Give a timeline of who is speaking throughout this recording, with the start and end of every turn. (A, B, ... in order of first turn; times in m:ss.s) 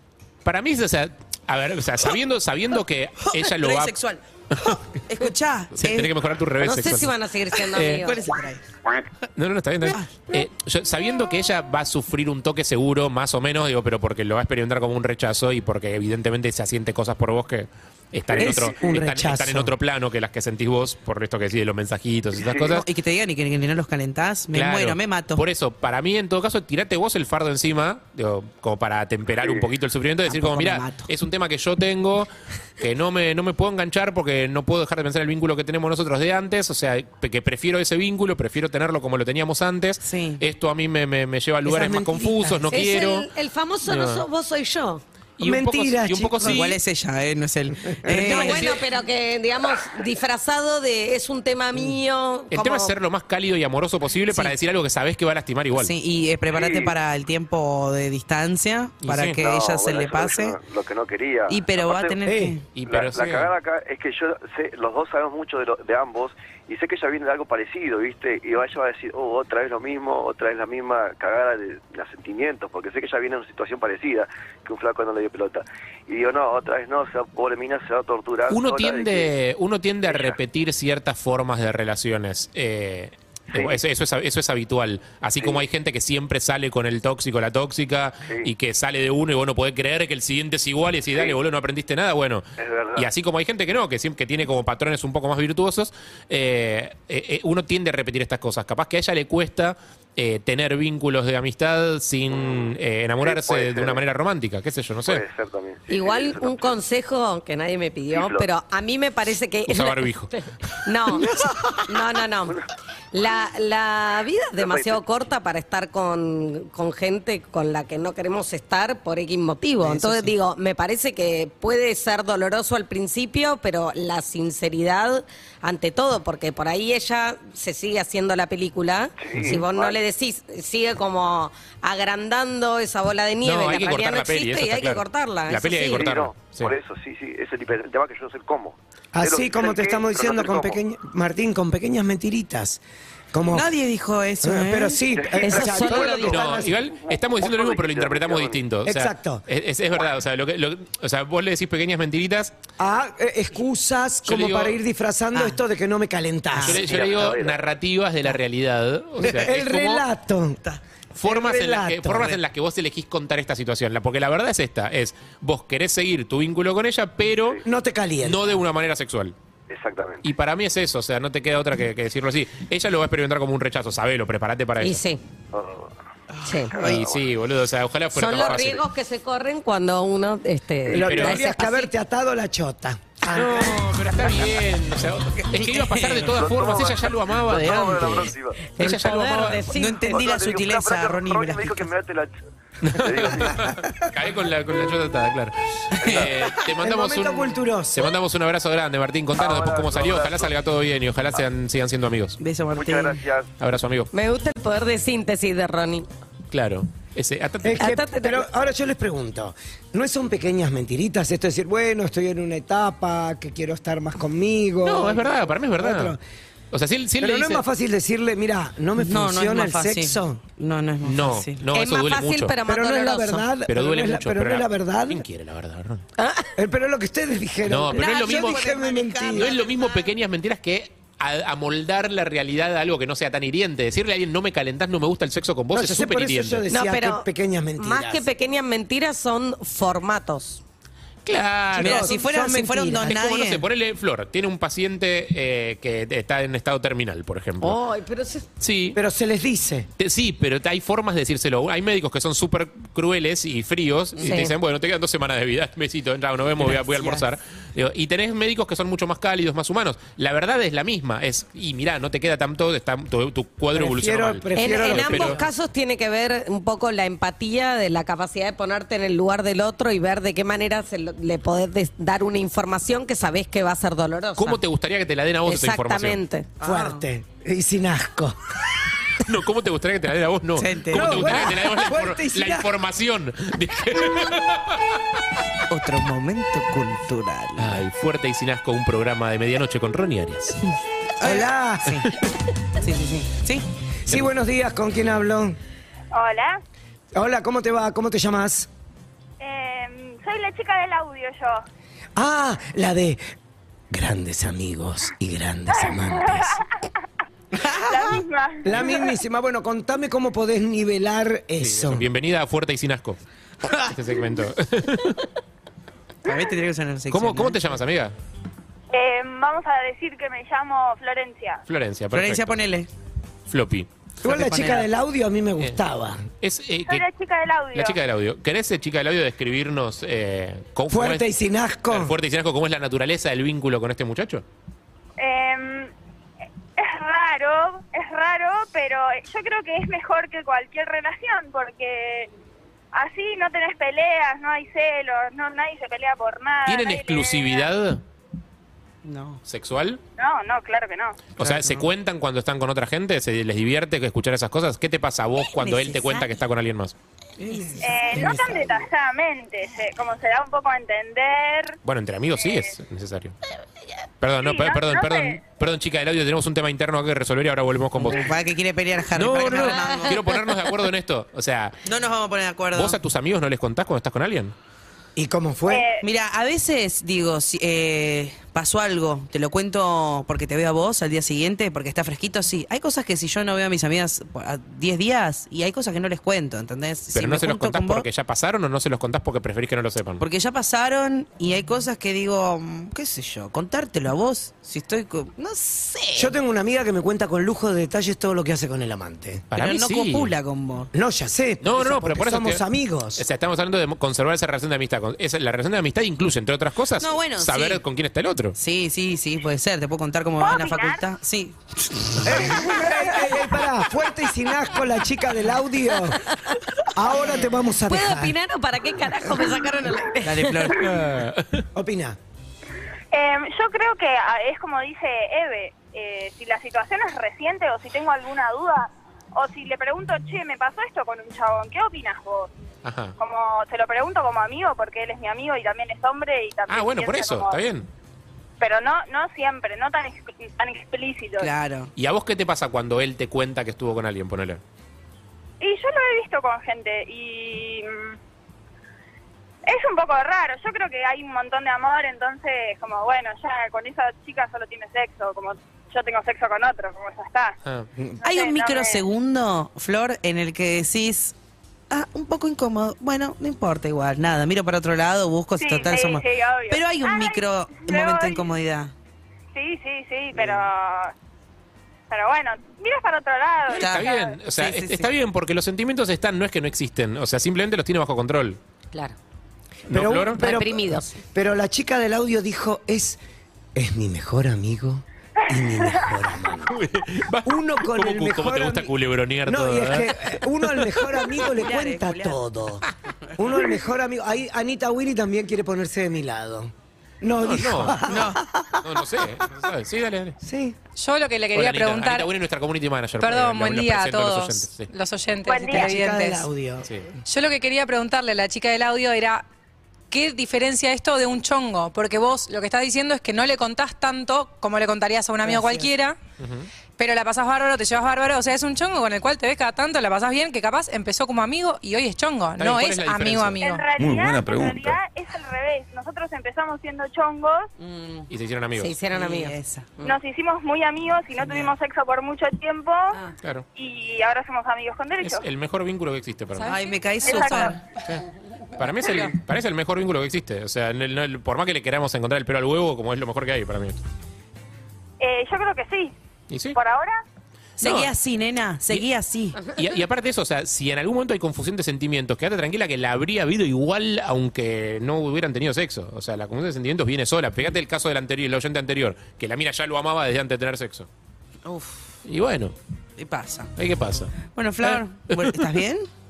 0:00.4-0:04.0 A
0:03.2-0:06.1 B
0:05.7-0:07.1 A
0:06.6-0:08.3 C
0:07.5-0:08.6 B
0:09.3-0:22.8 A
0:09.9-0:10.2 B
0:18.3-0:19.0 D
0:18.4-0:18.7 B
0:18.6-0:19.7 E
0:22.4-0:22.7 D
0:22.6-0:25.4 B
0:24.5-0:43.3 A
0:29.3-0:29.7 D
0:30.2-0:31.1 B
0:40.0-0:40.4 B
0:41.6-0:42.8 E
0:42.7-0:45.0 C
0:43.8-0:44.2 A
0:45.4-0:46.8 A
0:45.4-0:46.7 E
0:46.4-0:48.8 B
0:47.9-0:48.8 E
0:48.1-0:53.0 C
0:52.5-0:55.9 A
0:54.3-0:54.6 B
0:55.8-1:00.6 B
0:56.5-0:57.0 D
0:59.0-0:59.4 A
0:59.4-1:02.2 D
1:01.5-1:02.7 B
1:02.2-1:02.6 E
1:02.7-1:03.5 A
1:02.8-1:19.3 D
1:18.5-1:45.2 A
1:20.0-1:20.4 D
1:23.5-1:23.8 D
1:25.4-1:25.6 D
1:31.1-1:31.4 D
1:32.6-1:33.1 D
1:42.3-1:44.0 D
1:45.0-1:46.8 D
1:45.9-1:51.3 C
1:48.1-1:48.4 D
1:49.7-1:50.3 A
1:51.8-1:52.6 C
1:53.1-2:16.0 C
1:54.6-1:55.0 D
2:09.2-2:10.0 D
2:13.4-2:16.8 A
2:15.9-2:20.8 D
2:19.1-2:22.8 E
2:23.3-2:23.7 E
2:23.5-2:25.0 B
2:24.4-2:26.7 E
2:25.0-2:28.6 D
2:25.4-2:26.6 C
2:26.2-2:32.5 A
2:28.8-2:29.4 E
2:32.8-2:36.8 E
2:34.2-2:34.8 A
2:35.3-2:35.6 B
2:36.5-2:36.9 B
2:36.6-2:40.0 A
2:36.7-2:37.7 D
2:39.2-2:40.6 E
2:41.1-2:47.6 A
2:41.2-2:42.4 E
2:47.6-2:48.4 E
2:48.2-2:49.4 A
2:49.7-2:50.3 D
2:50.2-2:55.0 A
2:54.8-2:55.2 C
2:55.5-2:55.9 D
2:56.4-2:56.8 C
2:56.7-2:57.2 D
2:56.8-2:58.8 A
2:58.1-3:01.9 C
2:58.4-2:58.8 D
3:00.9-3:03.9 E
3:01.0-3:01.4 A
3:03.3-3:09.7 A
3:05.3-3:06.4 B
3:06.2-3:08.6 D
3:08.7-3:10.2 C
3:09.7-3:11.9 B
3:10.0-3:12.3 D
3:12.8-3:22.4 A
3:12.9-3:13.7 D
3:15.9-3:16.7 B
3:16.0-3:16.3 D
3:16.8-3:18.1 E
3:19.4-3:20.5 D
3:22.4-3:23.2 B
3:22.7-3:23.5 D
3:23.6-3:24.1 A
3:24.1-3:26.1 C
3:26.5-3:27.9 A
3:27.6-3:36.2 E
3:27.8-3:28.5 C
3:34.8-3:36.2 A
3:36.7-3:37.6 A
3:37.2-3:40.4 E
3:39.0-3:41.7 B
3:41.0-3:42.6 A
3:41.7-3:43.5 C
3:42.6-3:45.2 E
3:43.7-3:46.0 A
3:46.2-3:46.5 C
3:46.6-3:49.5 E
3:47.7-3:48.6 A
3:47.9-3:50.1 B
3:49.3-3:56.6 A
3:55.7-3:58.3 E
3:56.7-4:00.6 C
4:01.2-4:02.1 A
4:01.7-4:03.4 E
4:01.8-4:03.6 B
4:03.1-4:07.8 A
4:07.6-4:08.5 C
4:08.6-4:09.0 A
4:08.9-4:09.9 E
4:10.0-4:25.4 A
4:14.2-4:14.5 C
4:16.6-4:17.2 B
4:23.7-4:25.5 E
4:24.6-4:34.6 C
4:34.4-4:36.2 A
4:35.4-4:36.5 C
4:36.6-4:38.3 E
4:36.6-4:37.0 B
4:39.2-4:45.0 A
4:40.6-4:41.1 B
4:40.9-4:42.7 E
4:45.7-4:47.8 B
4:47.6-4:50.6 A
4:51.2-4:52.1 B
4:51.2-4:51.9 E
4:52.8-4:53.6 B
4:54.0-4:55.6 E
4:56.1-4:56.6 F
4:57.1-4:58.7 E
4:59.4-5:01.6 F
5:02.2-5:03.2 E
5:03.9-5:06.6 E
5:05.8-5:06.5 F
5:07.5-5:08.8 B
5:07.9-5:09.2 F
5:08.6-5:12.1 E
5:11.6-5:13.2 A
5:13.6-5:14.0 B
5:13.9-5:15.3 A
5:16.2-5:17.6 B
5:17.1-5:18.1 A
5:18.9-5:21.6 F
5:21.7-5:22.8 A
5:22.1-5:22.9 B
5:23.5-5:23.9 A
5:24.2-5:26.2 E
5:24.2-5:24.9 B
5:26.4-5:27.1 A
5:26.8-5:28.0 F
5:27.7-5:31.3 A
5:30.9-5:32.1 E
5:31.9-5:34.4 A
5:35.2-5:35.9 F
5:36.8-5:42.3 F
5:42.9-5:47.7 F
5:46.6-5:48.0 A
5:49.0-5:49.4 B
5:49.4-5:50.0 A
5:50.2-5:51.3 F
5:51.4-5:56.9 A
5:51.4-5:51.9 B
5:55.4-5:56.4 B
5:57.4-5:58.4 B
5:57.5-5:58.9 E
5:57.8-6:01.8 F
6:01.8-6:03.3 A
6:02.4-6:02.8 F
6:04.2-6:08.3 A
6:04.4-6:05.4 F
6:08.0-6:10.5 B
6:09.1-6:11.8 A
6:11.8-6:13.0 B
6:12.7-6:14.5 A
6:15.2-6:15.8 E
6:15.7-6:16.0 F
6:16.0-6:28.1 B
6:27.1-6:30.2 A
6:30.2-6:36.4 B
6:36.2-6:39.4 E
6:39.5-6:40.3 A
6:39.6-6:40.9 B
6:40.9-6:43.2 E
6:41.6-6:48.6 A
6:47.0-6:47.8 B
6:48.6-6:53.6 B
6:50.4-6:51.0 F
6:52.2-6:56.2 E
6:56.9-6:58.4 E
6:57.8-7:00.8 C
7:00.2-7:01.0 B
7:00.8-7:01.6 A
7:01.7-7:02.2 E
7:03.1-7:12.5 F
7:12.8-7:13.1 A
7:13.2-7:17.6 F
7:16.7-7:17.9 A
7:18.6-7:21.5 F
7:21.4-7:21.9 B
7:22.0-7:24.6 A
7:25.6-7:28.2 F
7:29.6-7:37.6 F
7:38.2-7:39.0 F
7:38.2-7:41.3 B
7:41.9-7:48.9 B
7:45.6-7:48.6 F
7:49.5-7:51.1 F
7:52.1-7:54.4 F
7:53.7-7:58.6 A
7:53.8-7:55.1 B
7:59.9-8:00.4 A
7:59.9-8:03.2 E
8:00.3-8:01.2 C
8:03.7-8:06.7 E
8:05.5-8:06.2 F
8:06.7-8:11.4 A
8:07.4-8:18.4 E
8:11.5-8:12.4 B
8:17.4-8:18.0 A
8:18.0-8:18.4 B
8:18.8-8:20.4 A
8:20.4-8:20.8 E
8:21.0-8:22.3 G
8:21.5-8:24.9 A
8:23.2-8:26.5 G
8:25.5-8:25.8 F
8:25.7-8:26.9 E
8:27.2-8:29.4 G
8:30.1-8:36.2 G
8:35.4-8:35.8 E
8:36.4-8:36.7 A
8:37.0-8:43.9 G
8:42.6-8:43.6 A
8:43.6-8:47.7 F
8:47.8-8:48.3 B
8:48.3-8:49.0 A
8:48.8-8:49.6 C
8:49.1-8:50.1 B
8:50.1-8:53.2 F
8:51.4-8:51.8 B
8:53.8-8:55.5 F
8:55.2-8:56.8 A
8:56.6-8:57.8 B
8:56.8-8:57.8 F
8:58.8-9:04.0 A
9:05.2-9:06.1 F
9:06.5-9:06.8 A
9:06.7-9:07.2 F
9:07.8-9:08.1 A
9:07.8-9:09.6 B
9:09.7-9:21.1 A
9:21.6-9:22.1 B
9:22.2-9:22.7 A
9:23.2-9:23.7 B
9:23.8-9:25.8 A
9:24.5-9:26.1 B